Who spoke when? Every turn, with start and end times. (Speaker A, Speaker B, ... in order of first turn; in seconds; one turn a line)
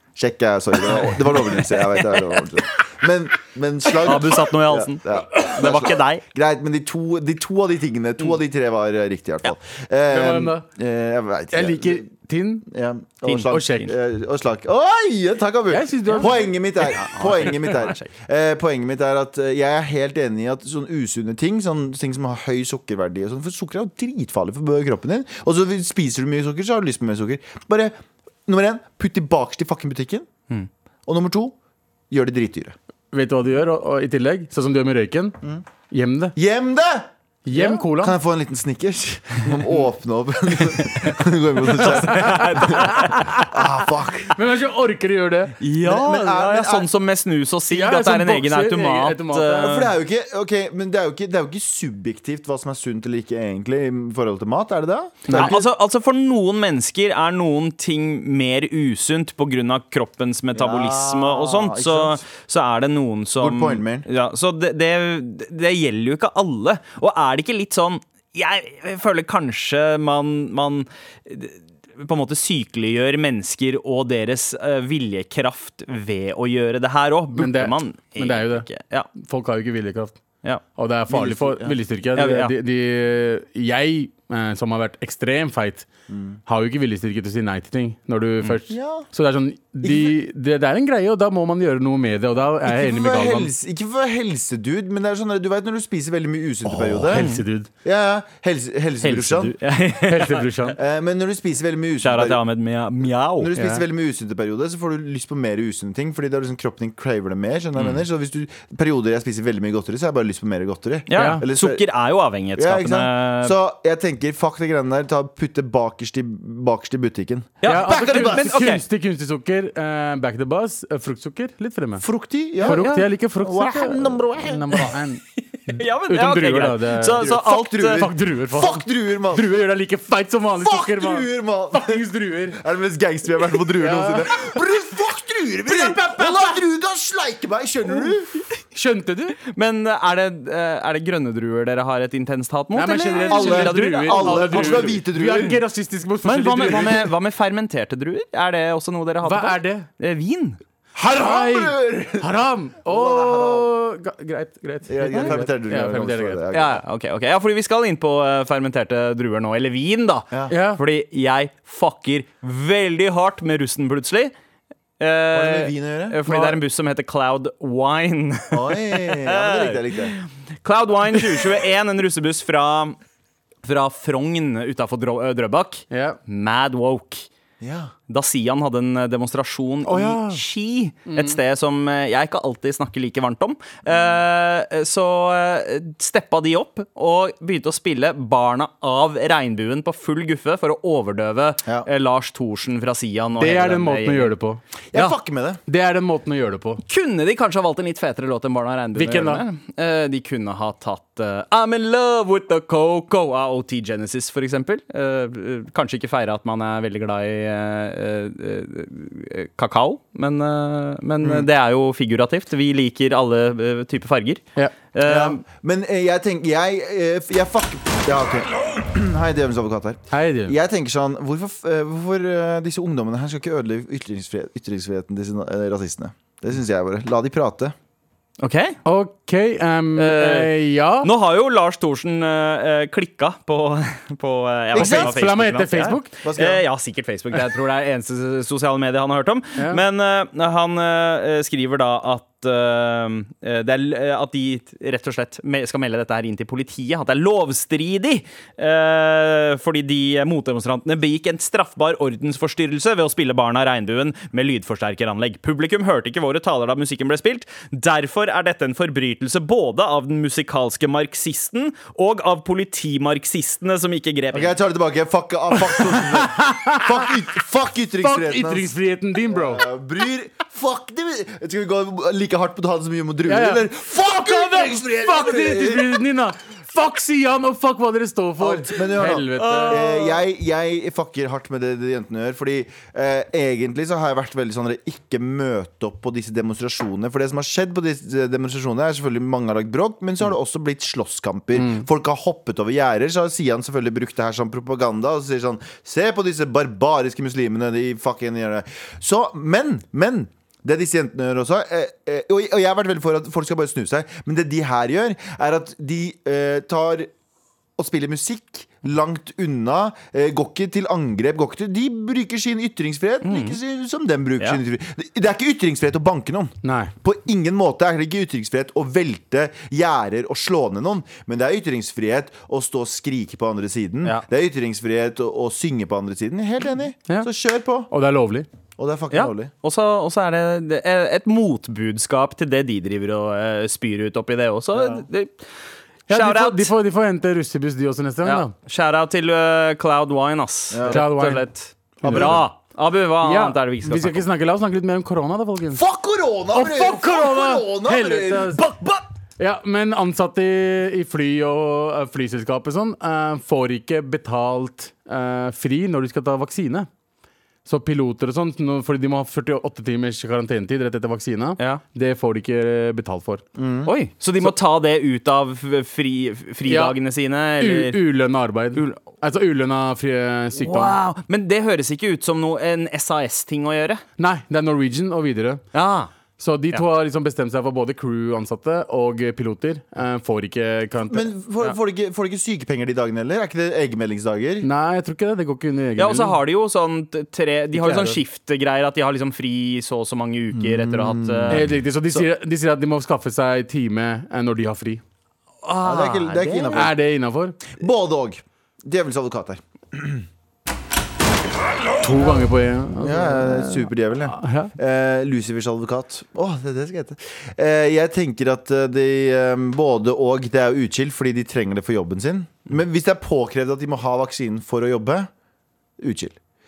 Speaker A: 0.1-12.1
Speaker B: 1.7-2.4
Speaker B: 4.0-6.2
Speaker C: 10.1-10.7
Speaker C: 11.5-12.6
Speaker A: 12.6-27.9
Speaker C: 13.3-13.9
Speaker C: 15.7-16.4
Speaker B: 16.2-18.1
Speaker A: 28.5-30.3
Speaker A: 31.1-31.6
Speaker A: 32.1-32.7
Speaker C: 33.1-35.4
Speaker C: 35.9-36.3
Speaker A: 36.3-44.4
Speaker C: 37.5-38.1
Speaker B: 40.8-43.7
Speaker C: 44.3-45.5
Speaker B: 45.6-49.9
Speaker A: 45.8-46.9
Speaker C: 47.7-49.7
Speaker A: 49.6-55.6
Speaker C: 55.3-55.6
Speaker B: 55.3-79.1
Speaker A: 60.5-62.2
Speaker A: 63.4-64.0
Speaker C: 77.3-80.2
Speaker C: 80.7-85.9
Speaker A: 81.1-81.8
Speaker B: 82.2-82.5
Speaker A: 86.1-86.4
Speaker C: 86.5-93.5
Speaker A: 88.7-89.1
Speaker A: 89.8-90.1
Speaker A: 92.6-97.2
Speaker C: 96.7-97.7
Speaker B: 97.1-97.4
Speaker A: 97.8-99.5
Speaker B: 99.0-100.5
Speaker C: 100.0-100.8
Speaker A: 100.8-102.4
Speaker B: 102.0-103.5
Speaker A: 103.4-111.8
Speaker C: 103.5-103.8
Speaker B: 107.8-108.0
Speaker B: 111.1-113.5
Speaker C: 111.1-111.4
Speaker A: 112.5-118.6
Speaker B: 117.6-118.8
Speaker C: 117.6-122.0
Speaker A: 122.0-124.9
Speaker C: 122.6-132.6
Speaker B: 122.6-123.1
Speaker B: 125.7-128.1
Speaker A: 127.1-129.5
Speaker A: 130.6-138.4
Speaker C: 133.8-134.8
Speaker C: 135.7-136.6
Speaker C: 138.7-139.4
Speaker B: 139.5-145.6
Speaker C: 142.7-147.1
Speaker A: 143.2-145.6
Speaker B: 146.2-150.6
Speaker C: 149.2-149.9
Speaker A: 150.9-152.3
Speaker C: 151.0-156.4
Speaker A: 152.8-153.7
Speaker A: 154.9-156.8
Speaker B: 156.5-164.3
Speaker C: 160.5-160.8
Speaker B: 165.0-173.0
Speaker A: 165.3-166.2
Speaker C: 166.3-166.6
Speaker A: 168.5-170.2
Speaker B: 173.6-177.3
Speaker C: 175.9-176.2
Speaker A: 177.6-177.9
Speaker B: 178.1-194.3
Speaker C: 179.8-180.4
Speaker C: 181.1-181.4
Speaker A: 183.8-184.2
Speaker C: 193.4-194.6
Speaker A: 194.9-195.6
Speaker C: 195.7-196.8
Speaker B: 196.8-215.4
Speaker C: 198.9-199.4
Speaker A: 211.2-211.5
Speaker A: 215.0-227.7
Speaker C: 220.1-220.5
Speaker B: 228.4-228.8
Speaker C: 228.8-231.1
Speaker B: 230.0-264.5
Speaker A: 234.7-235.1
Speaker C: 234.7-236.1
Speaker A: 236.2-236.6
Speaker C: 239.6-239.8
Speaker A: 264.3-268.7
Speaker C: 265.6-267.3
Speaker C: 268.0-269.6
Speaker A: 269.3-276.0
Speaker C: 273.3-279.8
Speaker A: 278.4-307.1
Speaker B: 279.3-280.2
Speaker C: 291.6-291.8
Speaker A: 307.8-327.9
Speaker B: 313.2-313.6
Speaker C: 316.6-316.9
Speaker C: 327.9-328.5
Speaker A: 328.8-329.5
Speaker B: 329.1-335.4
Speaker A: 334.7-335.0
Speaker B: 336.1-336.7
Speaker C: 336.1-338.5
Speaker B: 338.2-344.2
Speaker A: 340.7-341.0
Speaker C: 340.9-341.4
Speaker C: 342.0-342.4
Speaker A: 342.0-342.4
Speaker C: 343.2-345.8
Speaker A: 345.7-349.0
Speaker C: 346.5-348.6
Speaker C: 349.4-356.9
Speaker C: 357.6-363.4
Speaker A: 363.6-363.9
Speaker B: 363.9-368.0
Speaker C: 366.7-366.9
Speaker C: 367.6-371.0
Speaker B: 368.8-369.0
Speaker B: 370.6-374.0
Speaker C: 374.2-375.6
Speaker B: 375.7-376.1
Speaker C: 376.4-381.3
Speaker A: 381.1-384.7
Speaker C: 384.6-386.4
Speaker B: 386.0-391.7
Speaker C: 387.7-388.2
Speaker A: 390.5-392.2
Speaker C: 391.5-395.0
Speaker B: 395.6-396.9
Speaker A: 395.8-396.9
Speaker C: 396.7-397.6
Speaker A: 397.7-400.2
Speaker C: 402.0-404.7
Speaker A: 403.0-415.3
Speaker A: 416.0-416.4